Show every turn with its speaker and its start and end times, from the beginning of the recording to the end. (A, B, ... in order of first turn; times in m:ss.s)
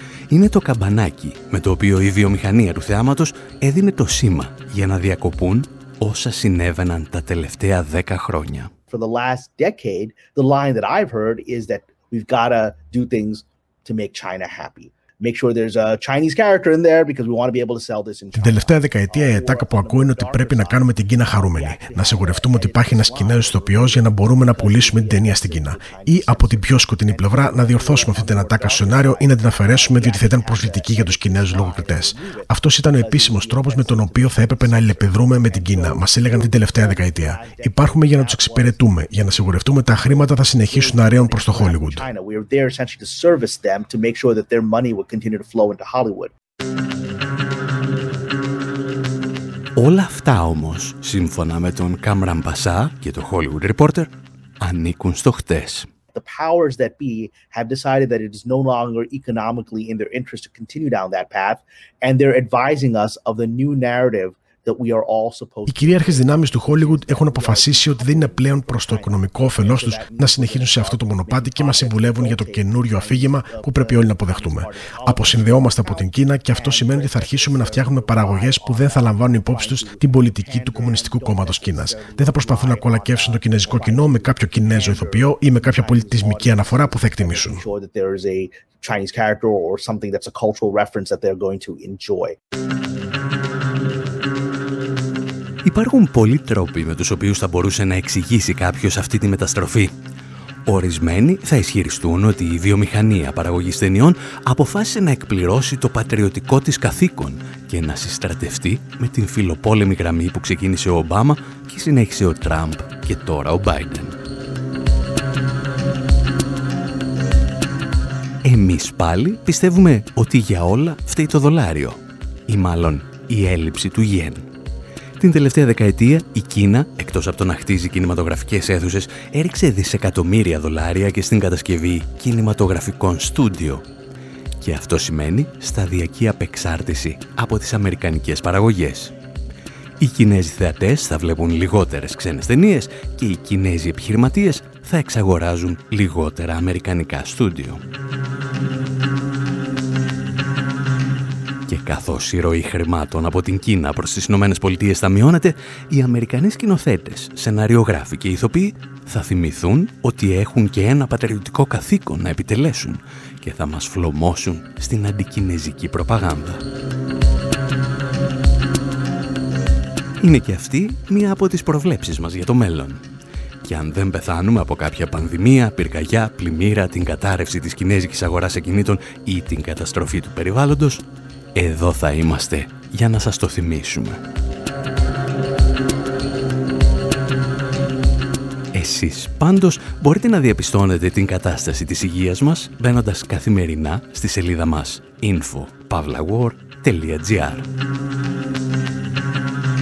0:00.3-0:08.7 A
0:08.9-0:38.8 B
0:18.3-0:42.1 C
0:39.9-0:46.3 B
0:49.8-0:55.9 A
0:56.1-1:32.4 B
1:05.7-1:27.6 C
1:35.6-1:39.9 A
1:40.7-1:54.2 A
1:58.4-2:04.5 A
2:05.2-2:13.8 A
2:14.6-2:19.1 A
2:20.0-2:27.8 A
2:31.7-2:46.6 A
2:50.2-2:53.0 A
2:53.6-3:01.0 A
3:01.6-3:04.2 A
3:08.7-3:17.7 A